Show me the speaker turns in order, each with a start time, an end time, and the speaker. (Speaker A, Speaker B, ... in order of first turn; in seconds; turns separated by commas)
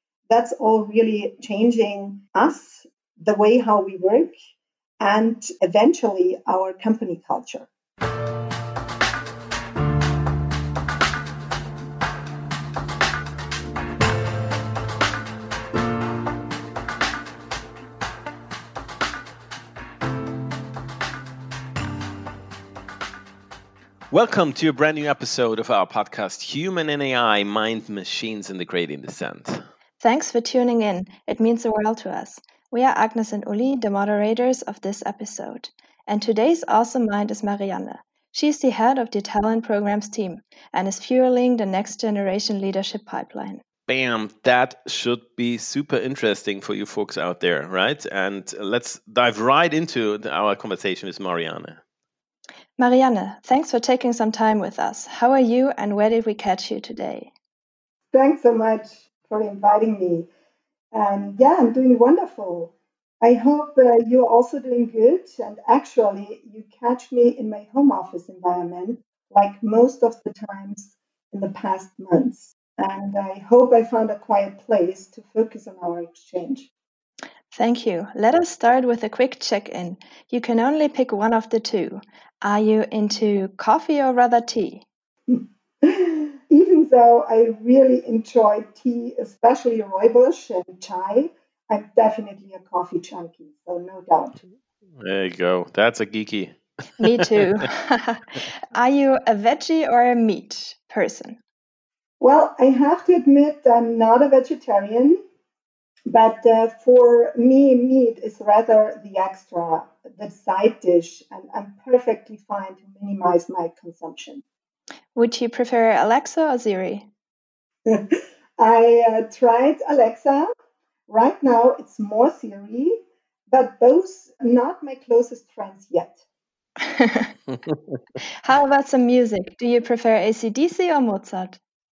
Speaker A: 0.3-4.3, Speaker A: 5.0-7.7, Speaker B: 24.1-29.6, Speaker C: 30.0-43.6, Speaker B: 43.9-51.8, Speaker C: 52.8-57.3, Speaker A: 58.1-60.3, Speaker A: 60.9-76.7, Speaker C: 77.5-84.8, Speaker A: 85.3-94.4, Speaker B: 95.0-97.6, Speaker C: 97.0-101.4, Speaker A: 102.2-105.2, Speaker A: 106.1-114.4, Speaker C: 115.1-117.1, Speaker A: 117.8-120.5, Speaker A: 121.1-123.0, Speaker A: 123.5-126.2, Speaker C: 126.8-127.3, Speaker C: 128.4-131.6